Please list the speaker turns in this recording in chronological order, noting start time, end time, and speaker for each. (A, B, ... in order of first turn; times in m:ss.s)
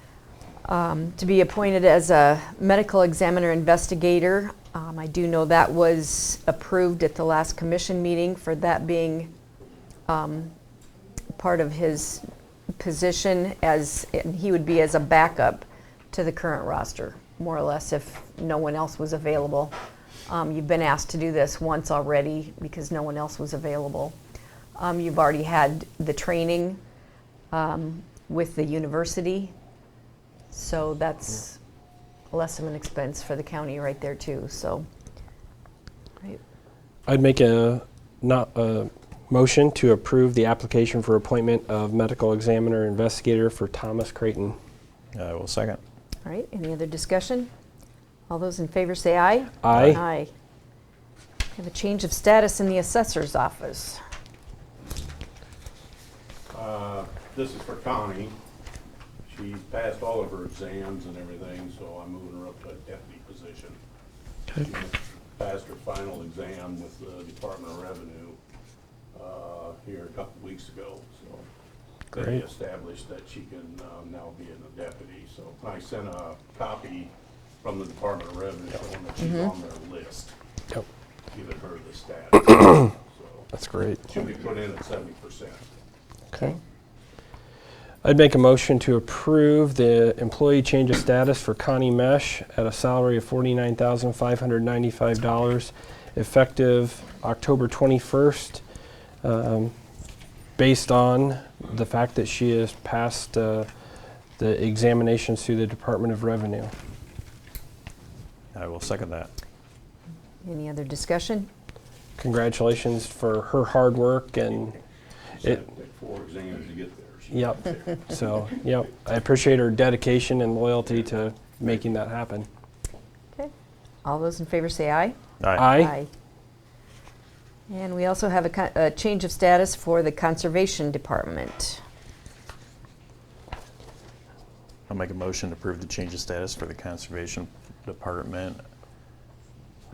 0:00.6-0:09.3 A
0:10.1-0:10.5 A
0:11.3-0:12.2 A
0:12.8-0:19.7 A
0:20.3-0:24.2 A
0:24.8-0:26.8 A
0:27.5-0:29.5 A
0:30.5-0:31.6 A
0:32.3-0:34.8 A
0:37.1-0:44.6 B
0:45.1-0:45.8 C
0:46.2-0:47.5 A
0:48.3-0:50.3 A
0:49.6-0:50.0 B
0:51.5-0:54.0 A
0:56.5-0:58.4 D
0:59.2-1:03.8 D
1:04.5-1:08.4 D
1:09.1-1:11.5 D
1:12.1-1:20.3 D
1:19.2-1:19.5 A
1:21.3-1:25.6 D
1:23.5-1:24.0 B
1:28.0-1:38.6 B
1:39.2-1:39.7 B
1:40.6-1:43.7 B
1:44.4-1:46.7 B
1:48.5-1:49.3 C
1:50.4-1:51.5 A
1:52.2-1:54.8 B
1:55.3-1:58.0 D
1:57.3-2:02.5 B
2:04.0-2:06.1 A
2:05.4-2:05.7 C
2:05.6-2:05.9 B
2:07.7-2:11.8 A
2:14.9-2:18.6 C